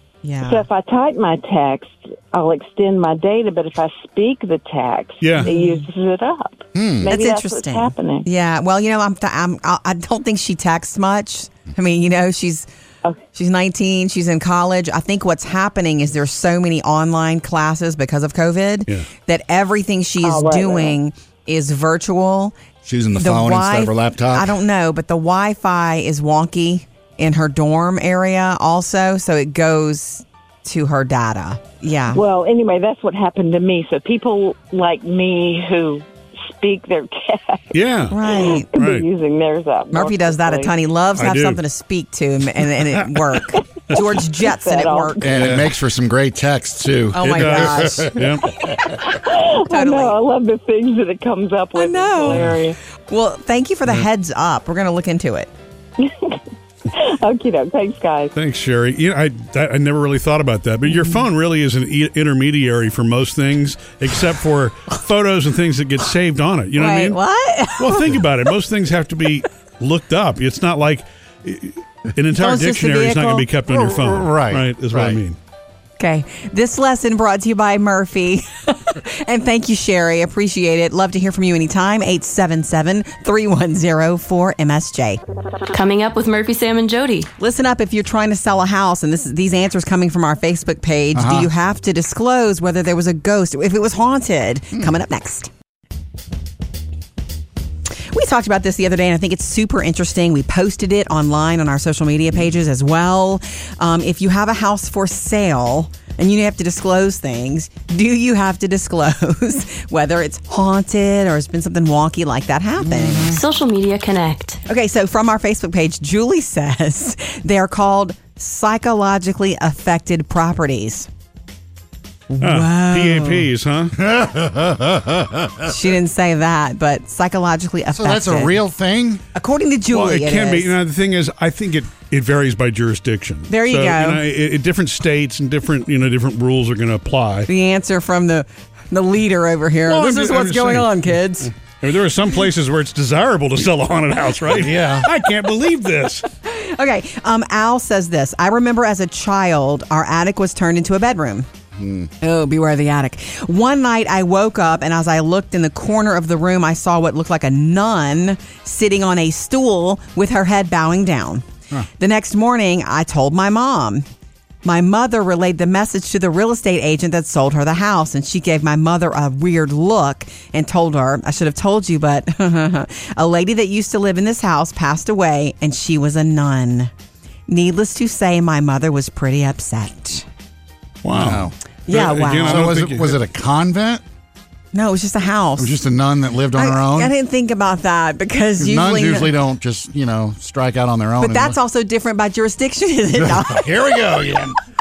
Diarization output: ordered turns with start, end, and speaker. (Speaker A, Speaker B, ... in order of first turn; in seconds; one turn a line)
Speaker A: 0.2-0.7
Speaker B: 0.4-8.3
Speaker C: 5.2-5.5
Speaker A: 5.4-5.8
Speaker D: 6.7-7.1
Speaker A: 7.1-12.7
Speaker A: 13.3-22.6
Speaker B: 20.2-21.0
Speaker D: 22.8-24.6
Speaker A: 23.2-32.2
Speaker B: 32.1-40.7
Speaker C: 37.7-38.2
Speaker A: 38.1-38.7
Speaker C: 38.7-39.0
Speaker A: 39.9-45.2
Speaker C: 41.2-41.6
Speaker B: 44.0-45.3
Speaker D: 45.2-48.3
Speaker C: 45.4-45.7
Speaker A: 47.1-48.2
Speaker C: 47.2-48.5
Speaker B: 48.7-52.8
Speaker A: 49.6-50.2
Speaker A: 51.7-52.4
Speaker C: 52.3-52.5
Speaker A: 53.1-55.5
Speaker B: 56.0-56.4
Speaker B: 56.9-58.3
Speaker C: 58.3-67.2
Speaker A: 60.9-61.2
Speaker A: 66.8-68.1
Speaker C: 67.8-75.4
Speaker A: 72.3-73.5
Speaker D: 73.7-75.2
Speaker A: 76.0-85.2
Speaker E: 85.7-87.3
Speaker A: 87.4-95.5
Speaker D: 91.1-91.5
Speaker A: 98.1-113.4
Speaker D: 112.8-113.3
Speaker E: 113.3-114.6
Speaker A: 114.7-121.1
Speaker A: 122.3-123.5
Speaker C: 122.4-124.0
Speaker D: 123.9-125.7
Speaker A: 125.7-128.6
Speaker D: 127.9-129.2
Speaker A: 129.3-130.7
Speaker C: 129.9-137.5
Speaker A: 133.5-134.2
Speaker A: 137.5-141.5
Speaker C: 139.9-141.2
Speaker C: 141.8-146.2
Speaker D: 144.5-145.1
Speaker A: 146.4-151.5
Speaker D: 151.8-152.1
Speaker A: 152.2-161.4
Speaker A: 162.0-164.1
Speaker A: 164.6-176.9
Speaker A: 177.5-180.2
Speaker C: 181.0-183.2
Speaker D: 181.1-181.5
Speaker A: 181.9-182.7
Speaker D: 182.4-184.0
Speaker A: 184.7-185.8
Speaker D: 185.6-187.1
Speaker A: 186.5-189.3
Speaker D: 188.6-191.6
Speaker A: 191.2-193.9
Speaker D: 193.2-194.6